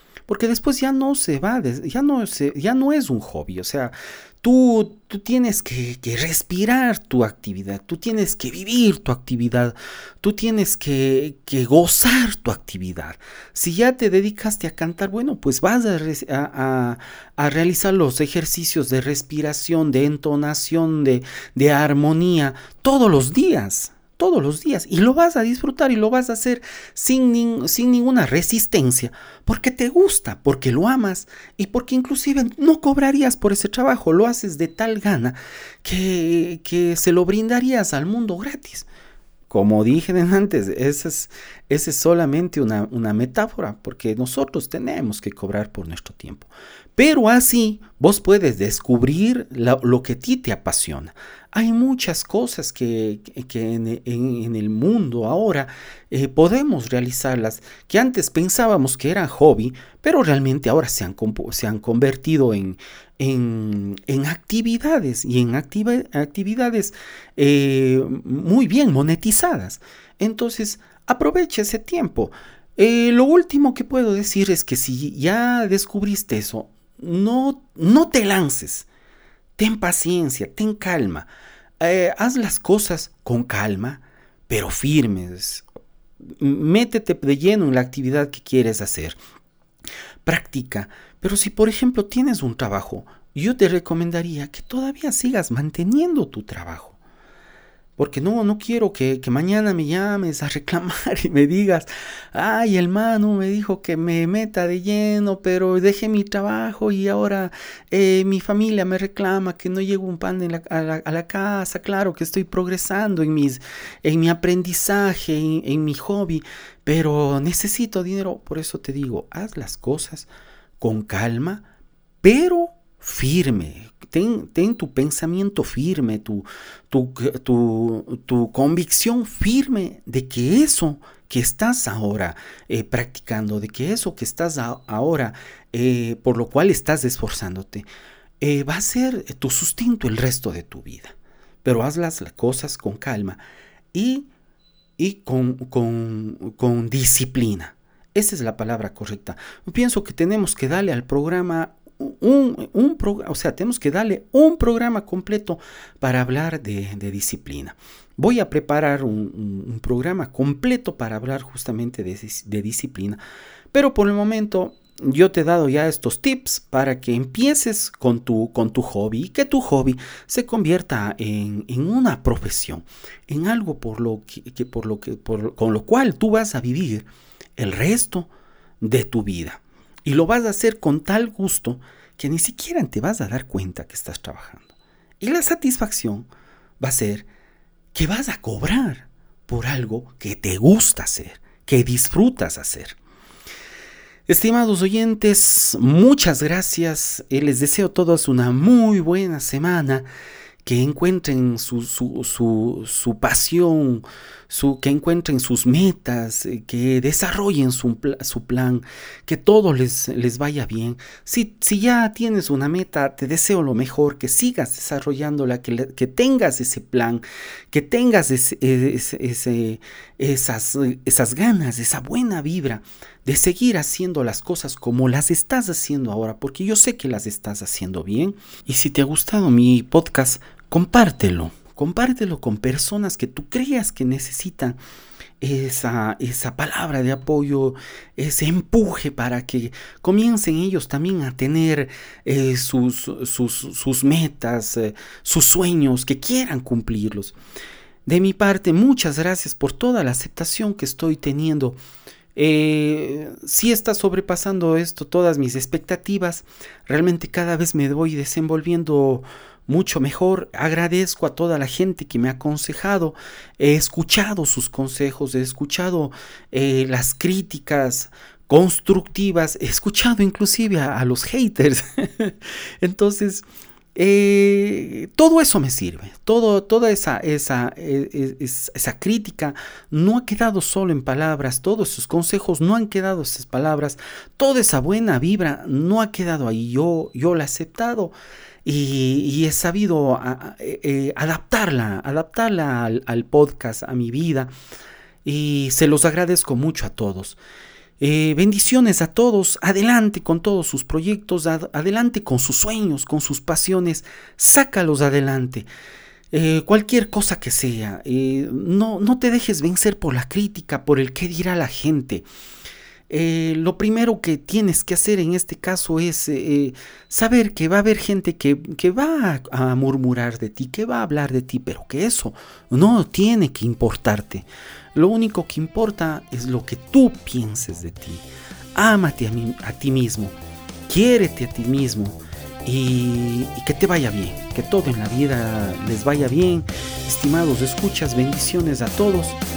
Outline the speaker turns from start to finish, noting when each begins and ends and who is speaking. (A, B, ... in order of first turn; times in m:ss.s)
0:00.3-0:38.9 A
0:39.5-1:18.9 A
1:19.6-1:21.3 A
1:21.8-1:25.6 A
1:26.3-1:29.2 A
1:30.2-1:37.0 A
1:38.0-2:00.3 A
2:00.8-2:01.7 A
2:02.2-2:17.9 A
2:18.4-2:23.4 A
2:23.9-2:24.3 A
2:25.0-2:43.2 A
2:43.7-2:57.0 A
2:57.6-2:58.3 A
2:58.8-3:06.3 A
3:06.8-3:07.3 A
3:07.9-3:13.0 A
3:14.3-3:20.1 A
3:20.6-3:54.8 A
3:55.4-4:07.3 A
4:08.0-4:11.8 A
4:12.3-4:48.1 A
4:48.6-4:54.5 A
4:55.2-4:57.4 A
4:58.0-5:05.7 A
5:06.3-5:12.2 A
5:13.1-5:30.4 A
5:30.9-5:39.4 A